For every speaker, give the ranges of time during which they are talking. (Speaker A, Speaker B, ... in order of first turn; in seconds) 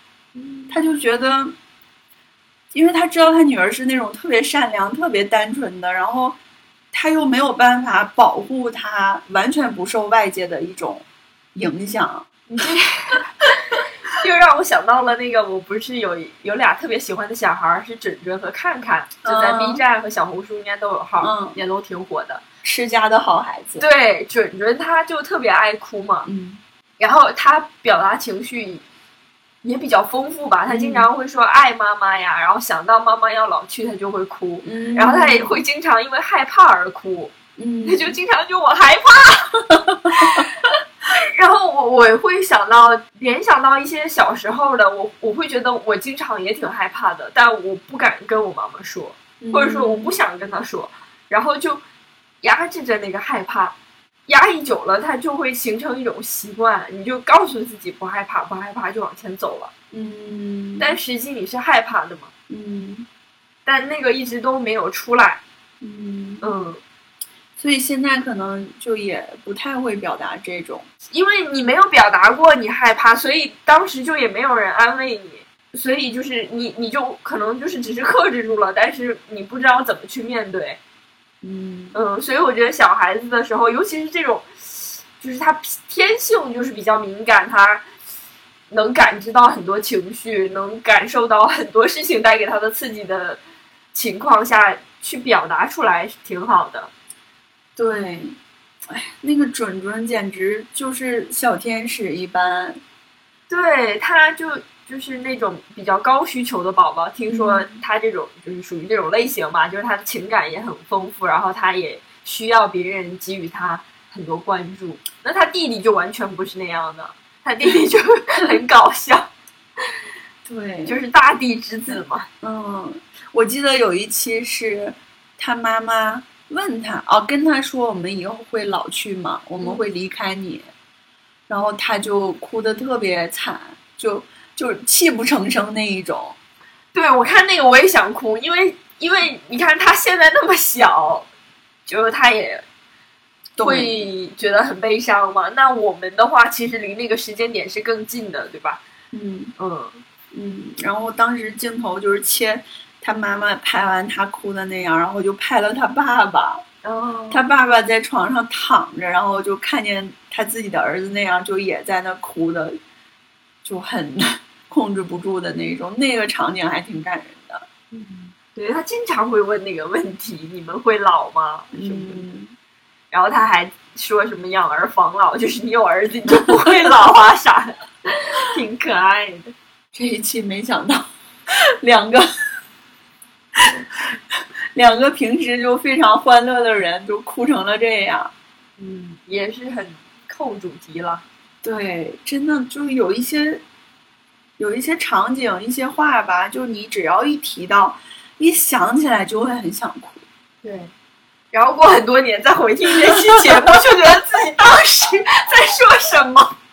Speaker A: 0.3-0.8, 12.5-22.4, 23.8-26.3, 27.0-28.8, 29.6-37.3, 37.8-51.8, 52.4-53.7, 54.3-59.7, 60.8-62.3, 63.6-65.4, 66.4-66.8, 71.1-80.8, 81.9-87.8, 88.7-93.4, 93.9-96.9, 103.5-119.3, 120.9-122.3, 136.9-141.3, 141.8-142.6, 143.6-148.8, 149.6-150.0, 156.8-157.4, 167.9-172.2, 173.1-179.5, 188.8-191.2, 200.6-200.9, 201.5-206.5
Speaker B: 0.7-1.5, 2.7-6.4, 6.9-11.0, 11.5-12.3, 19.2-19.8, 21.2-21.6, 22.6-23.8, 26.2-26.6, 30.7-31.1, 34.6-35.5, 37.6-38.1, 39.9-40.4, 49.4-50.1, 59.9-61.0, 62.5-63.0, 65.8-66.5, 67.6-70.9, 81.4-82.0, 97.8-102.8, 107.3-107.8, 120.4-121.0, 121.9-130.7, 131.5-136.3, 143.6-144.0, 149.1-149.5, 150.3-156.6, 157.3-162.8, 163.6-167.6, 171.7-172.5, 176.3-177.0, 179.9-182.5, 183.5-188.3, 191.6-193.6, 194.6-200.2, 203.2-203.7